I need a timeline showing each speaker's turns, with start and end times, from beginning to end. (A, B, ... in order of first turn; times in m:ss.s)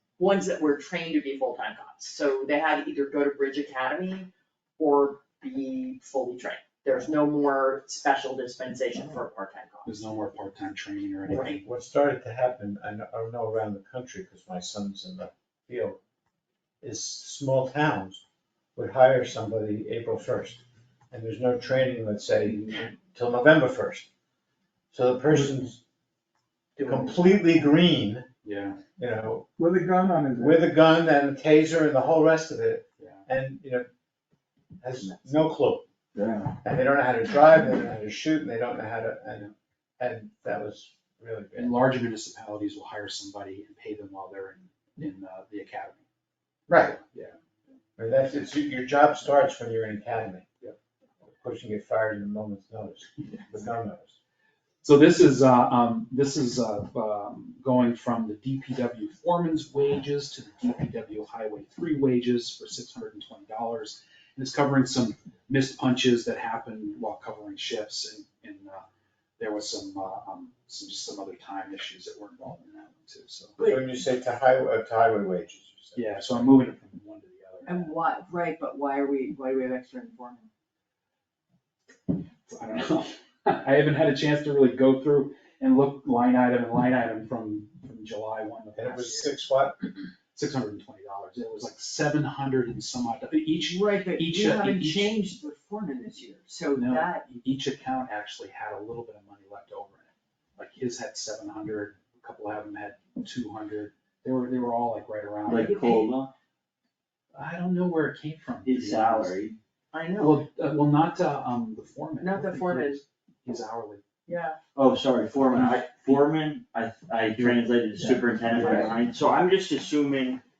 0:00.2-0:10.0 A
0:09.8-0:11.6 B
0:11.3-0:16.0 C
0:11.3-0:11.6 A
0:16.8-0:18.2 C
0:18.8-0:24.1 C
0:24.9-0:25.8 C
0:26.8-0:27.6 A
0:26.8-0:28.3 C
0:28.4-0:28.8 B
0:29.0-0:29.5 C
0:29.6-0:30.7 D
0:30.4-0:33.9 C
0:33.0-0:33.2 B
0:34.8-0:35.9 C
0:36.1-0:36.6 D
0:36.6-0:41.8 C
0:41.6-0:46.0 B
0:46.7-0:47.0 C
0:47.0-0:47.4 B
0:48.0-0:50.4 C
0:51.4-0:54.2 C
0:54.8-1:08.8 B
1:09.4-1:13.6 B
1:13.6-1:14.0 A
1:13.6-1:16.6 C
1:16.0-1:17.9 B
1:17.6-1:20.5 A
1:22.1-1:29.4 B
1:28.8-1:29.8 C
1:30.3-1:35.2 B
1:33.7-1:37.3 A
1:36.8-1:45.8 B
1:45.5-1:46.3 E
1:45.5-1:46.1 A
1:47.3-1:49.5 B
1:48.6-1:49.6 E
1:49.9-1:50.4 A
1:50.2-1:54.0 B
1:52.2-1:53.0 A
1:54.3-1:54.6 A
1:54.8-2:00.4 E
1:55.4-1:56.3 B
1:58.0-1:58.9 D
1:58.5-1:58.9 B